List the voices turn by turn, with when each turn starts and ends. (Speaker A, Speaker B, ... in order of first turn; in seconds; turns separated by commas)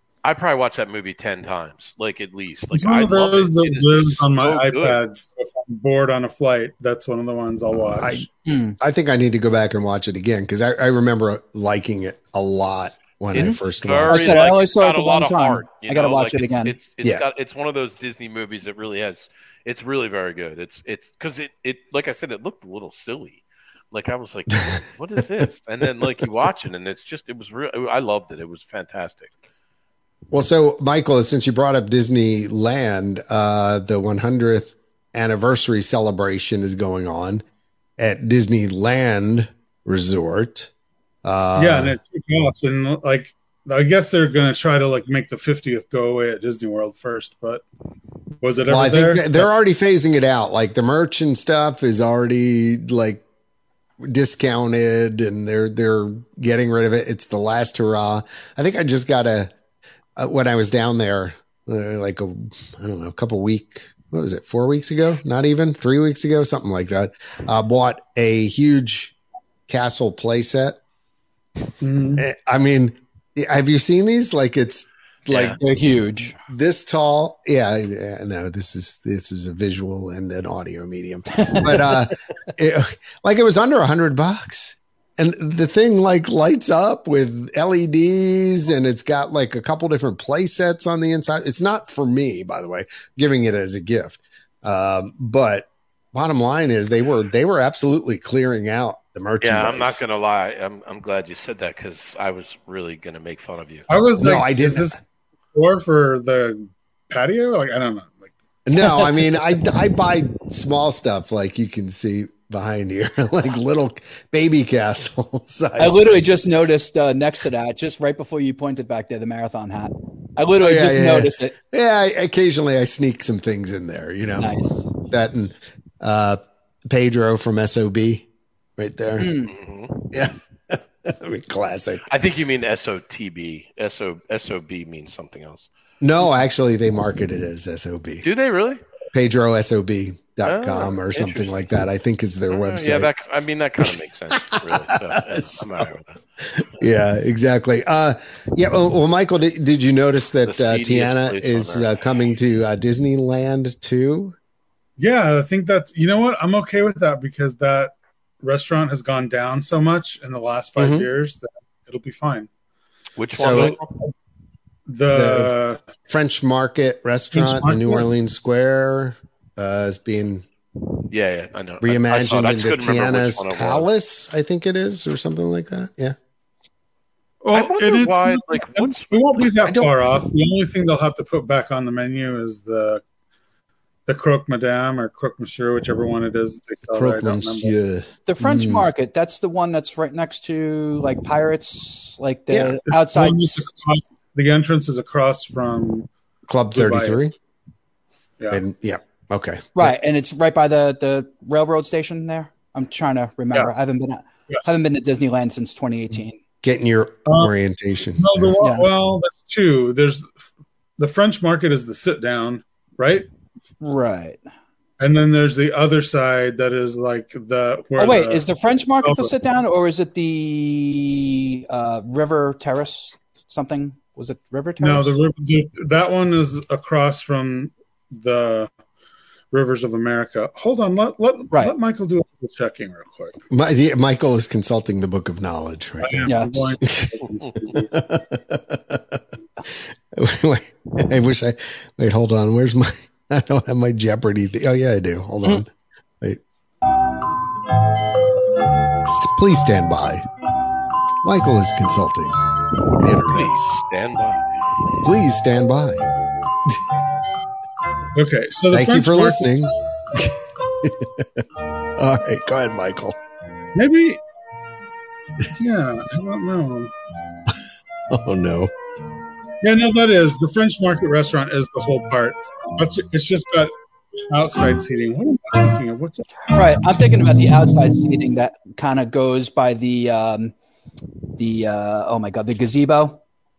Speaker A: 0.2-5.0, Speaker B: 2.7-8.3, Speaker C: 7.9-8.3, Speaker D: 8.4-8.8, Speaker C: 8.8-14.4, Speaker D: 13.3-16.8, Speaker A: 13.3-29.3, Speaker C: 30.3-37.4, Speaker C: 38.0-40.7, Speaker C: 41.2-41.9, Speaker B: 41.6-47.6, Speaker B: 48.4-49.5, Speaker C: 48.7-53.2, Speaker C: 54.0-59.5, Speaker C: 60.2-69.1, Speaker C: 69.7-70.8, Speaker B: 71.8-72.2, Speaker C: 72.2-75.6, Speaker A: 75.3-75.6, Speaker D: 75.6-76.4, Speaker C: 76.4-100.0, Speaker A: 99.4-103.9, Speaker B: 103.9-105.0, Speaker C: 104.2-104.9, Speaker B: 105.5-108.3, Speaker C: 108.7-116.0, Speaker D: 115.8-121.5, Speaker C: 120.6-124.5, Speaker D: 124.4-124.9, Speaker C: 125.1-126.4, Speaker C: 126.9-129.3, Speaker D: 129.2-129.5, Speaker A: 129.5-130.1, Speaker C: 130.1-132.1, Speaker A: 132.1-135.7, Speaker C: 136.0-138.2, Speaker A: 138.2-138.8, Speaker C: 139.1-143.1, Speaker A: 140.4-141.6, Speaker A: 142.5-146.2, Speaker C: 143.9-145.7, Speaker C: 146.5-154.3, Speaker A: 150.4-151.9, Speaker B: 155.0-162.5, Speaker C: 160.8-161.1, Speaker A: 163.2-163.9, Speaker C: 163.3-163.8, Speaker B: 163.4-164.1, Speaker B: 164.9-165.8, Speaker C: 165.1-165.6, Speaker C: 166.1-170.4, Speaker B: 167.3-168.1, Speaker A: 171.1-173.9, Speaker C: 171.8-176.1, Speaker B: 177.4-183.0, Speaker A: 177.5-179.5, Speaker C: 179.6-179.9, Speaker B: 184.1-187.7, Speaker C: 186.9-188.9, Speaker D: 188.3-193.6, Speaker C: 192.5-192.8, Speaker B: 192.9-196.1, Speaker C: 196.5-197.3, Speaker B: 196.7-197.2, Speaker C: 198.5-199.9, Speaker D: 199.7-206.4, Speaker C: 206.6-208.5, Speaker B: 207.3-207.5, Speaker B: 208.2-210.3, Speaker D: 208.6-208.9, Speaker B: 211.0-213.3, Speaker D: 213.8-214.4, Speaker B: 215.0-218.4, Speaker D: 218.0-225.2, Speaker B: 219.0-219.3, Speaker B: 224.8-228.7, Speaker B: 229.5-233.3, Speaker C: 233.5-237.2, Speaker B: 236.0-237.9, Speaker D: 236.3-236.6, Speaker C: 237.7-239.2, Speaker C: 240.1-245.7, Speaker C: 249.0-250.2, Speaker C: 251.2-252.4, Speaker C: 253.0-253.7, Speaker A: 253.2-254.9, Speaker C: 255.0-256.0, Speaker B: 258.1-259.4, Speaker C: 258.7-261.4, Speaker C: 261.9-263.2, Speaker B: 263.7-264.2, Speaker B: 265.5-266.9, Speaker C: 268.1-268.7, Speaker B: 269.6-273.7, Speaker B: 274.3-276.3, Speaker D: 276.5-280.5, Speaker D: 281.4-283.2